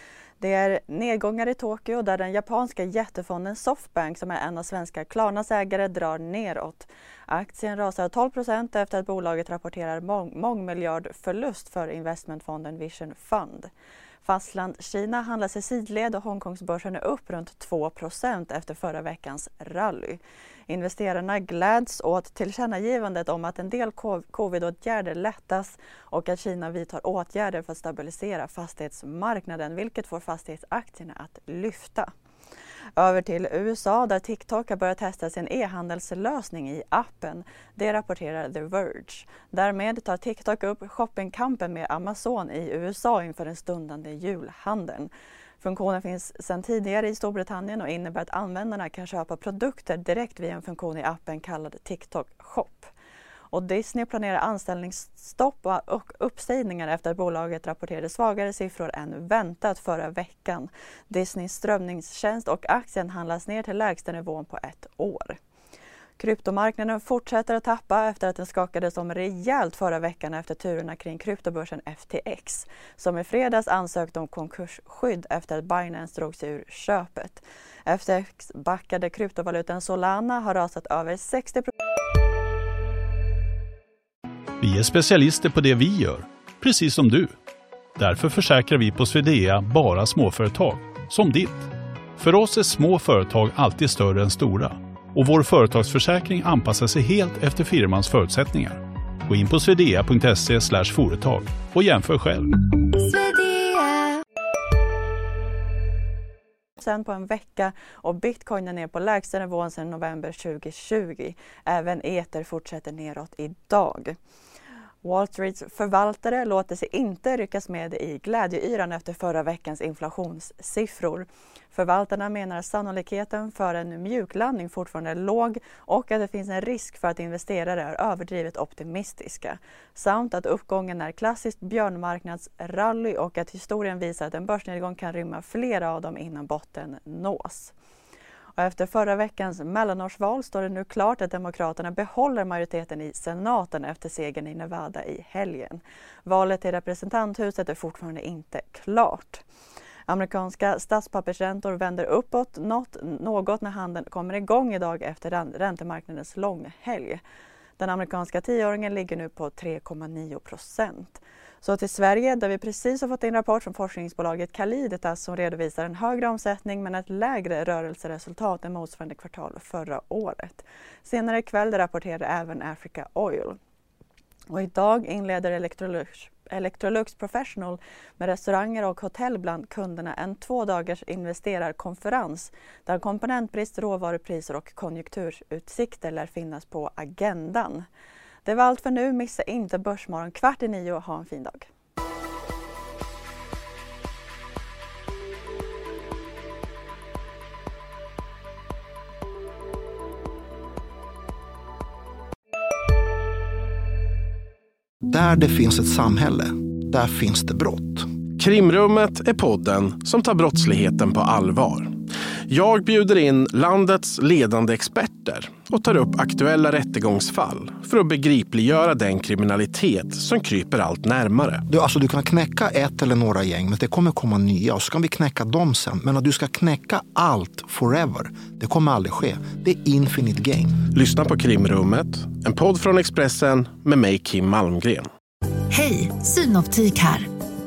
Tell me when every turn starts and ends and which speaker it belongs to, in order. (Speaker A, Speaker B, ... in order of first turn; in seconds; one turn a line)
Speaker A: 0.4-13.7
Speaker A: 14.2-32.1
Speaker A: 33.0-52.9
Speaker A: 53.5-65.4
Speaker A: 66.2-81.7
Speaker B: 84.6-87.3
Speaker B: 88.0-102.5
Speaker C: 103.0-104.1
Speaker A: 106.8-114.2
Speaker A: 115.0-137.7
Speaker A: 138.6-149.4
Speaker A: 150.1-157.2
Speaker A: 157.8-173.6
Speaker A: 174.5-187.8
Speaker A: 188.4-191.7
Speaker D: 205.0-208.1
Speaker E: 208.4-211.9
Speaker E: 212.5-221.6
Speaker D: 221.7-230.8
Speaker E: 230.9-235.1
Speaker C: 235.7-237.3